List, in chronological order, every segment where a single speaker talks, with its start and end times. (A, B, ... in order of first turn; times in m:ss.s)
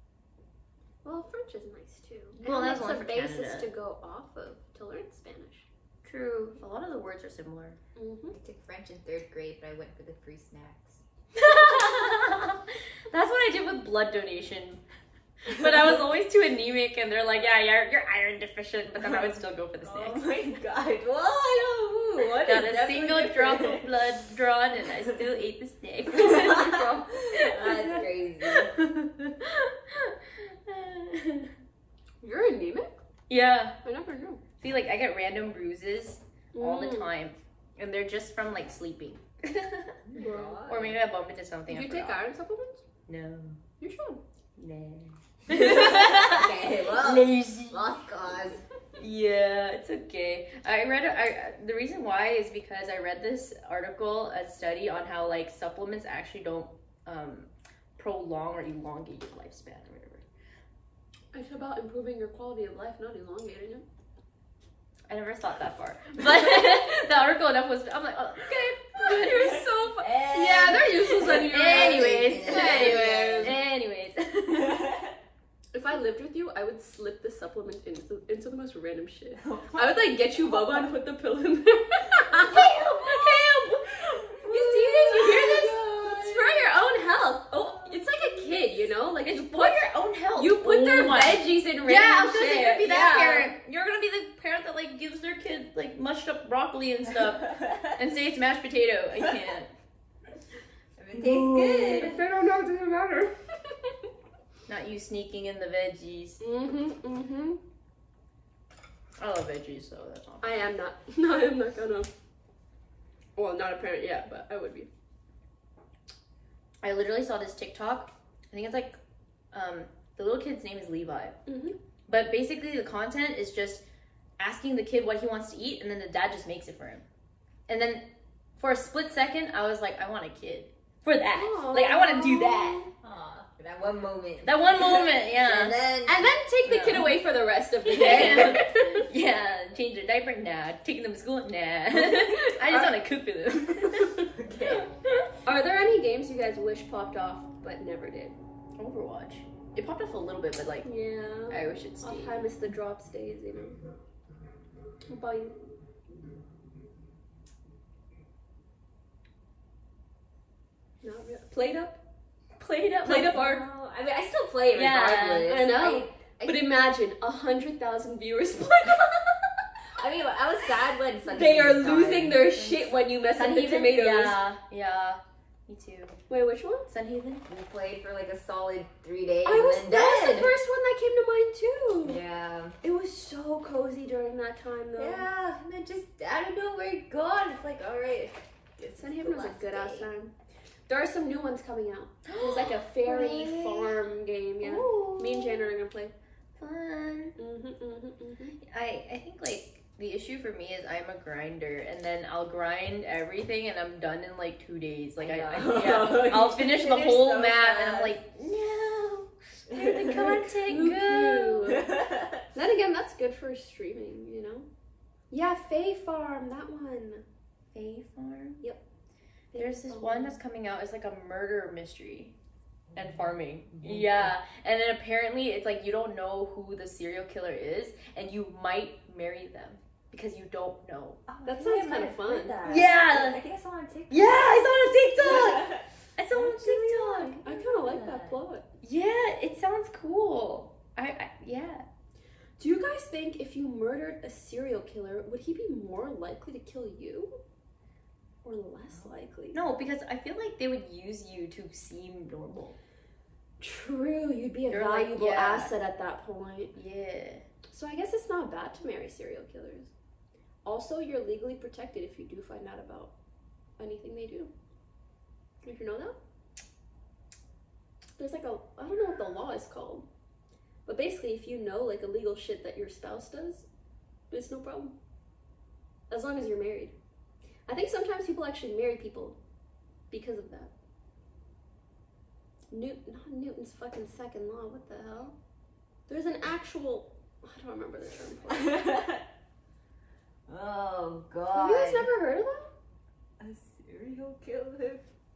0:01.0-0:05.7 A
0:02.4-0:03.7 B
0:06.0-0:07.8 B
0:08.0-0:08.4 A
0:08.3-0:11.0 C
0:11.3-0:14.8 B
0:15.4-0:20.5 B
0:19.8-0:23.9 C
0:22.4-0:31.5 B
0:26.1-0:28.7 C
0:26.2-0:27.1 A
0:32.2-0:33.0 A
0:33.3-0:33.8 B
0:33.8-0:34.4 A
0:34.6-0:40.0 B
0:36.5-0:37.1 A
0:40.1-0:41.0 C
0:40.2-0:40.6 A
0:40.6-0:42.2 B
0:41.7-0:42.8 A
0:43.1-0:43.6 B
0:43.8-0:44.2 A
0:44.6-0:48.0 B
0:45.5-0:48.6 C
0:45.7-0:46.0 A
0:49.0-1:00.2 B
1:01.3-1:03.8 A
1:05.1-1:09.6 B
1:08.4-1:13.5 A
1:09.3-1:13.6 C
1:11.2-1:14.8 B
1:14.5-1:15.1 C
1:15.7-1:33.5 A
1:19.4-1:20.9 C
1:22.4-1:23.5 B
1:24.4-1:26.2 B
1:25.0-1:26.5 C
1:29.2-1:39.7 B
1:37.5-1:37.9 C
1:41.0-1:42.2 C
1:41.2-1:43.3 A
1:44.7-1:46.4 B
1:46.4-1:47.6 A
1:49.2-1:50.6 B
1:50.4-1:52.1 A
1:53.4-1:54.9 A
1:56.8-1:59.0 B
1:59.5-2:01.4 B
2:01.5-2:01.8 A
2:02.1-2:03.8 B
2:04.4-2:07.0 B
2:07.7-2:12.8 B
2:11.3-2:12.9 A
2:13.0-2:16.3 C
2:14.4-2:15.7 B
2:16.0-2:19.1 A
2:16.6-2:17.2 B
2:17.8-2:18.6 C
2:17.8-2:24.3 B
2:21.9-2:22.9 A
2:24.2-2:24.9 C
2:25.4-2:28.4 A
2:28.8-2:30.9 B
2:30.8-2:33.8 A
2:31.5-2:32.4 B
2:35.1-2:35.6 A
2:41.0-2:42.0 A
2:42.6-2:43.4 B
2:43.0-2:43.6 A
2:43.1-2:46.7 C
2:44.7-2:45.5 B
2:45.4-2:49.6 A
2:50.0-2:52.5 C
2:51.3-2:54.4 A
2:52.5-2:56.2 B
2:56.3-2:56.9 A
2:56.9-2:57.4 B
2:57.5-3:00.5 C
2:59.4-3:02.2 A
3:02.0-3:02.8 C
3:02.8-3:05.3 A
3:05.0-3:10.1 C
3:09.0-3:10.3 A
3:10.9-3:16.1 A
3:12.2-3:13.9 B
3:14.6-3:15.7 B
3:16.6-3:17.3 B
3:17.4-3:18.6 A
3:18.6-3:31.8 B
3:25.2-3:28.2 C
3:29.7-3:30.4 C
3:30.1-3:31.9 A
3:31.7-3:32.4 C
3:32.5-3:34.7 A
3:35.3-3:37.2 A
3:37.7-3:38.6 B
3:39.5-3:40.4 A
3:39.5-3:42.3 B
3:42.9-3:44.3 C
3:42.9-3:51.2 B
3:51.3-3:58.4 C
3:51.4-3:52.9 A
3:52.6-3:53.4 B
3:54.1-3:57.4 B
3:57.4-3:58.6 A
3:58.8-4:01.8 B
4:02.6-4:07.4 A
4:08.4-4:09.6 A
4:09.5-4:12.8 B
4:13.6-4:16.7 A
4:14.7-4:15.7 B
4:16.7-4:17.4 B
4:17.7-4:19.9 A
4:20.6-4:23.1 A
4:23.8-4:24.5 A
4:25.6-4:26.2 A
4:28.2-4:30.1 A
4:30.8-4:33.7 A
4:34.3-4:34.9 A
4:36.1-4:36.9 A
4:37.7-4:39.4 A
4:40.1-4:40.7 A
4:42.7-4:45.3 A
4:46.1-4:49.0 A
4:48.5-4:49.2 C
4:50.5-4:52.1 C
4:51.5-4:52.7 A
4:53.4-4:55.0 C